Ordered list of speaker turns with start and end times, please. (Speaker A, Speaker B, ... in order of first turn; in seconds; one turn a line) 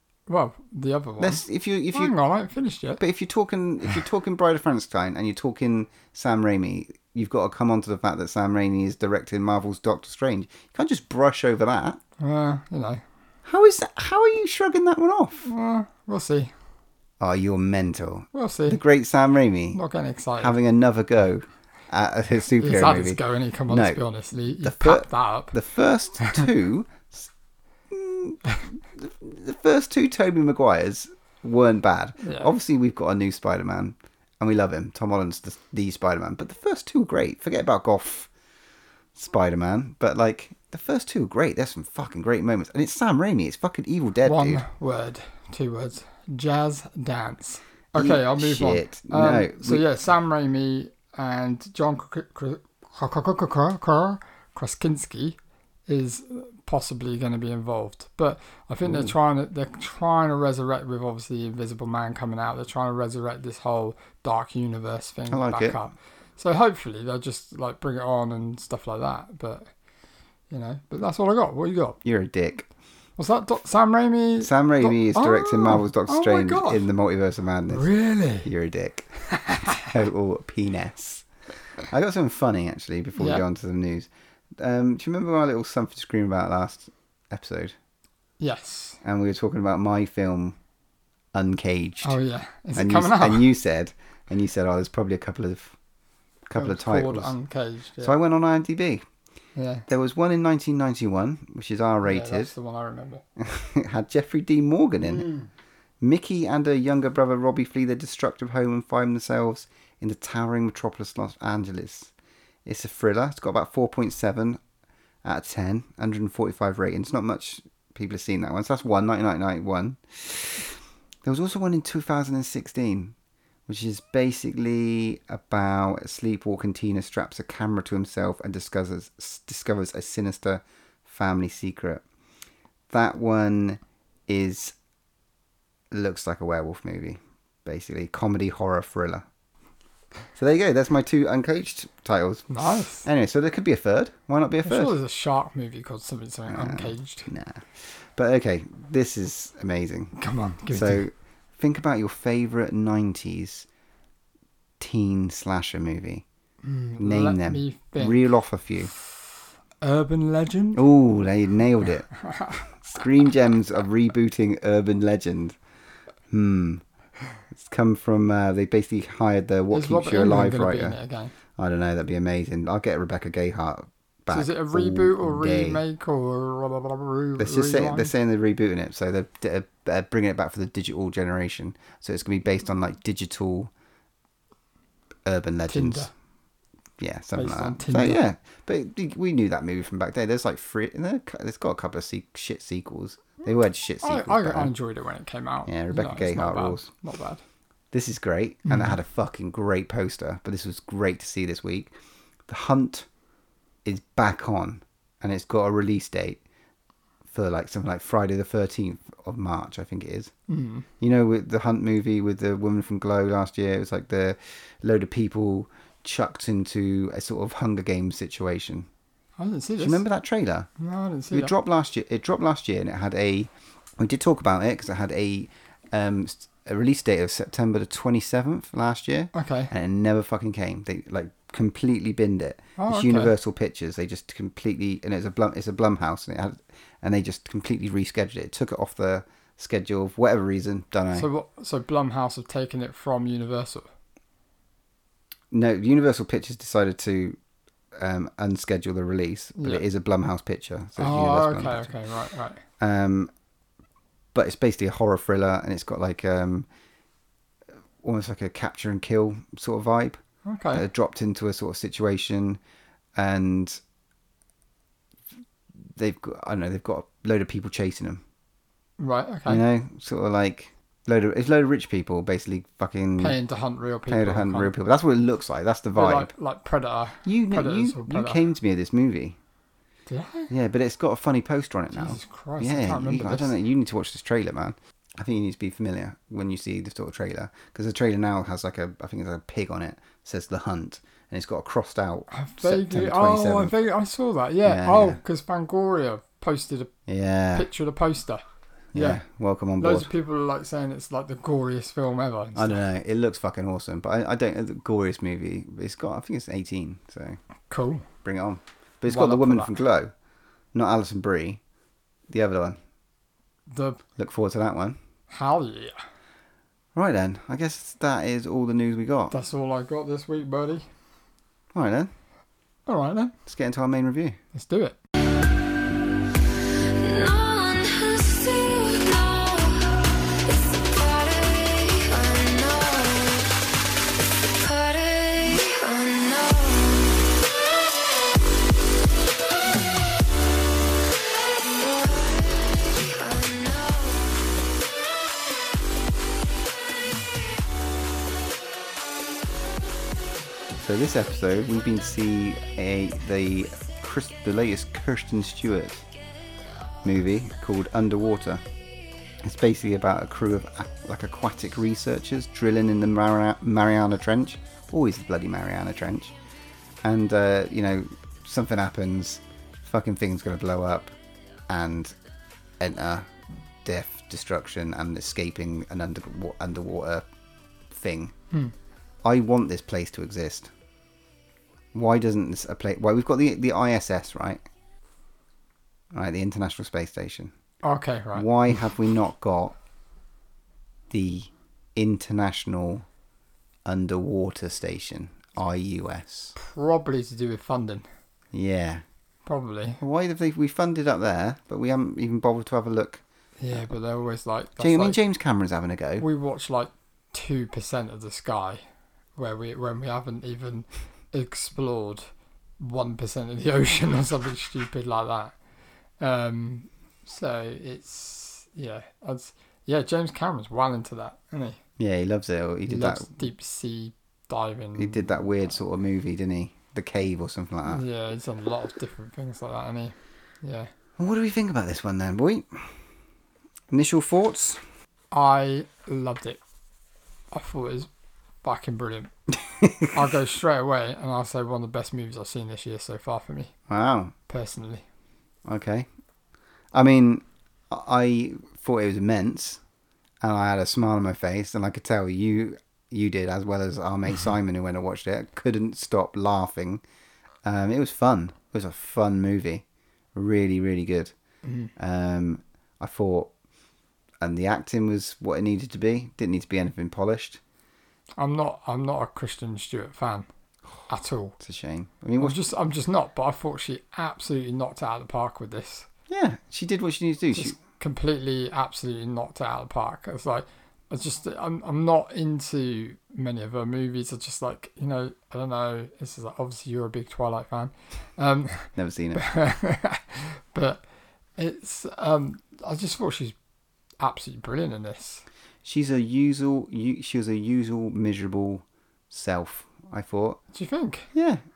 Speaker A: 0.3-3.0
Speaker B: 1.2-2.1
Speaker B: 3.0-12.0
Speaker A: 12.2-13.0
Speaker B: 13.4-15.5
Speaker A: 15.4-16.5
Speaker B: 17.2-19.8
Speaker A: 18.3-18.8
Speaker A: 19.7-20.6
Speaker B: 20.4-24.0
Speaker A: 22.6-25.6
Speaker B: 24.6-27.3
Speaker B: 27.9-38.3
Speaker A: 32.2-32.5
Speaker B: 39.1-44.6
Speaker A: 44.3-69.7
Speaker B: 48.0-49.9
Speaker B: 58.9-59.1
Speaker B: 65.3-65.8
Speaker A: 70.5-72.0
Speaker B: 72.0-72.7
Speaker A: 73.2-76.9
Speaker B: 74.4-77.9
Speaker A: 77.7-78.5
Speaker B: 78.4-79.1
Speaker A: 79.4-79.7
Speaker B: 79.7-81.3
Speaker B: 81.8-87.8
Speaker A: 83.2-83.4
Speaker A: 88.4-89.0
Speaker B: 89.0-90.6
Speaker B: 91.3-92.2
Speaker A: 92.0-93.5
Speaker B: 92.8-95.8
Speaker B: 96.5-97.3
Speaker A: 96.5-98.2
Speaker B: 98.0-99.0
Speaker A: 99.6-99.8
Speaker B: 99.9-102.5
Speaker A: 102.0-103.2
Speaker B: 103.4-105.3
Speaker A: 105.1-105.5
Speaker B: 106.0-112.1
Speaker B: 112.7-114.6
Speaker B: 115.2-123.2
Speaker B: 123.7-132.0
Speaker B: 132.9-134.8
Speaker B: 135.9-139.3
Speaker B: 140.3-144.9
Speaker A: 142.5-143.1
Speaker A: 144.7-147.3
Speaker B: 146.5-150.2
Speaker A: 150.2-151.1
Speaker B: 150.7-153.7
Speaker B: 154.8-156.2
Speaker A: 156.6-158.2
Speaker B: 157.0-158.9
Speaker A: 159.8-160.8
Speaker B: 160.7-162.1
Speaker A: 162.2-162.7
Speaker B: 162.7-165.6
Speaker B: 166.3-166.8
Speaker B: 167.5-171.0
Speaker A: 169.7-171.3
Speaker B: 171.6-175.8
Speaker A: 174.3-178.1
Speaker B: 177.4-183.7
Speaker B: 185.3-186.1
Speaker A: 185.7-186.1
Speaker B: 187.0-194.7
Speaker A: 187.3-188.2
Speaker A: 194.0-197.4
Speaker B: 195.7-196.9
Speaker B: 197.9-201.9
Speaker A: 198.7-199.0
Speaker B: 202.5-203.1
Speaker B: 203.8-206.4
Speaker B: 207.3-210.3
Speaker A: 210.5-210.9
Speaker B: 211.0-218.9
Speaker A: 219.4-220.0
Speaker B: 219.8-220.7
Speaker A: 220.8-221.5
Speaker B: 221.3-241.3
Speaker A: 229.3-229.7
Speaker A: 232.8-233.3
Speaker A: 241.1-243.9
Speaker B: 245.5-247.4
Speaker B: 247.9-251.9
Speaker A: 249.6-249.8
Speaker A: 251.0-252.6
Speaker B: 252.8-253.3
Speaker B: 254.3-256.7
Speaker B: 258.0-260.2
Speaker A: 260.5-260.9
Speaker B: 260.7-262.6
Speaker B: 263.2-263.8
Speaker B: 265.9-268.2
Speaker A: 269.0-269.6
Speaker B: 269.5-273.4
Speaker A: 273.2-274.7
Speaker B: 274.1-276.3
Speaker A: 275.9-278.4
Speaker B: 277.2-279.4
Speaker A: 280.1-280.5
Speaker B: 280.5-293.7
Speaker A: 281.9-283.5
Speaker A: 292.3-296.9
Speaker B: 294.6-295.2
Speaker B: 297.1-297.7
Speaker A: 297.6-298.4
Speaker B: 298.9-300.1
Speaker A: 298.9-299.2
Speaker A: 299.8-302.8
Speaker B: 302.6-307.4
Speaker A: 307.7-308.1
Speaker B: 308.2-310.1
Speaker A: 309.1-309.7
Speaker B: 310.7-311.6
Speaker B: 312.3-312.8
Speaker A: 313.7-314.0
Speaker B: 314.2-315.0
Speaker A: 315.3-316.0
Speaker B: 316.9-319.3
Speaker A: 319.3-320.9
Speaker B: 321.7-322.1
Speaker A: 322.9-323.4
Speaker B: 323.5-324.4
Speaker A: 324.5-325.0
Speaker C: 327.0-333.7
Speaker C: 334.6-337.4
Speaker C: 341.5-344.4
Speaker B: 350.8-356.1
Speaker B: 357.0-358.6
Speaker B: 359.4-366.4
Speaker B: 367.0-371.1
Speaker B: 371.7-372.2
Speaker B: 372.8-373.3
Speaker B: 373.8-377.3
Speaker B: 377.9-378.4
Speaker B: 379.2-380.7
Speaker B: 381.9-384.6
Speaker B: 386.1-387.5
Speaker A: 387.8-388.5
Speaker B: 388.3-389.8
Speaker B: 391.1-393.1
Speaker B: 393.9-396.6
Speaker A: 396.6-398.1
Speaker B: 398.5-399.0
Speaker A: 399.4-400.0
Speaker B: 400.0-403.2
Speaker A: 403.6-405.2
Speaker B: 404.8-406.2
Speaker A: 406.2-408.8
Speaker A: 409.4-412.3
Speaker A: 412.8-415.6
Speaker A: 416.2-421.8
Speaker B: 422.0-423.4
Speaker A: 422.9-425.4
Speaker B: 425.0-428.0
Speaker A: 427.9-430.9
Speaker B: 431.2-432.9
Speaker B: 433.9-434.8
Speaker A: 435.3-436.6
Speaker A: 437.5-438.1
Speaker A: 438.6-439.3
Speaker B: 439.8-440.1
Speaker A: 440.1-443.7
Speaker B: 443.9-444.3
Speaker A: 444.5-445.1
Speaker B: 445.7-446.1
Speaker B: 446.9-449.8
Speaker B: 450.4-457.0
Speaker B: 457.6-461.3
Speaker A: 461.6-461.9
Speaker B: 462.0-463.5
Speaker B: 464.4-467.6
Speaker A: 468.4-470.5
Speaker A: 471.1-471.6
Speaker B: 471.6-472.6
Speaker A: 472.4-476.1
Speaker B: 476.3-477.8
Speaker A: 477.5-491.0
Speaker B: 489.0-489.4
Speaker A: 491.6-493.6
Speaker A: 494.2-495.4
Speaker B: 495.8-500.6
Speaker A: 500.7-501.3
Speaker B: 501.3-501.6